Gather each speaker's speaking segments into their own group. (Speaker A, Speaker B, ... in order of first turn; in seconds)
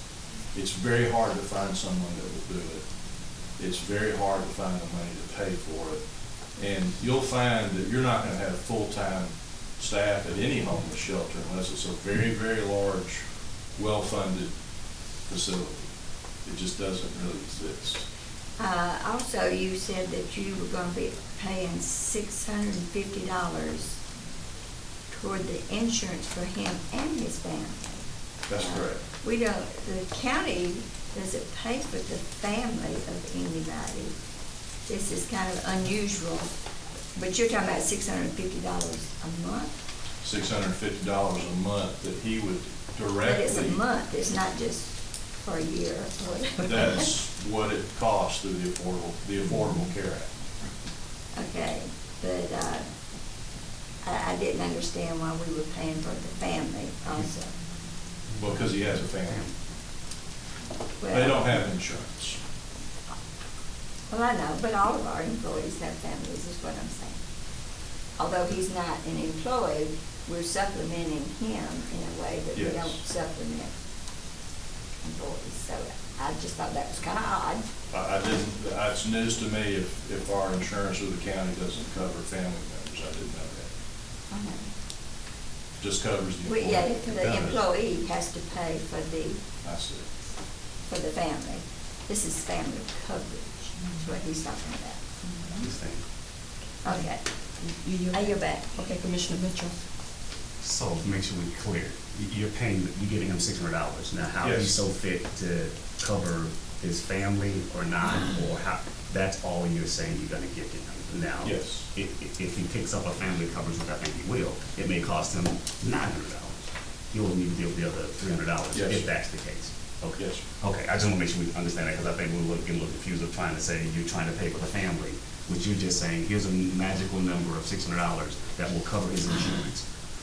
Speaker A: 0.5-2.8, 3.6-6.0, 6.6-13.2, 13.8-14.5, 15.3-15.8, 16.4-18.1, 28.5-29.0, 40.2-43.8, 46.6-50.3, 58.4-59.5, 61.1-62.4, 72.5-73.0, 77.9-83.7, 85.8-87.6, 89.6-90.1, 104.4-104.8, 111.4-111.9, 118.7-119.1
Speaker B: 18.6-24.0, 25.1-34.1, 34.9-36.5, 37.1-39.7, 43.2-47.0, 51.3-52.9, 54.0-57.5, 61.0-61.6, 64.1-67.2, 68.2-73.7, 75.0-77.6, 84.3-84.7, 86.5-89.4, 90.9-95.1, 96.8-97.2, 98.1-98.7
Speaker C: 87.2-87.5, 95.6-96.0, 100.6-129.8
Speaker D: 95.2-95.7, 96.8-99.8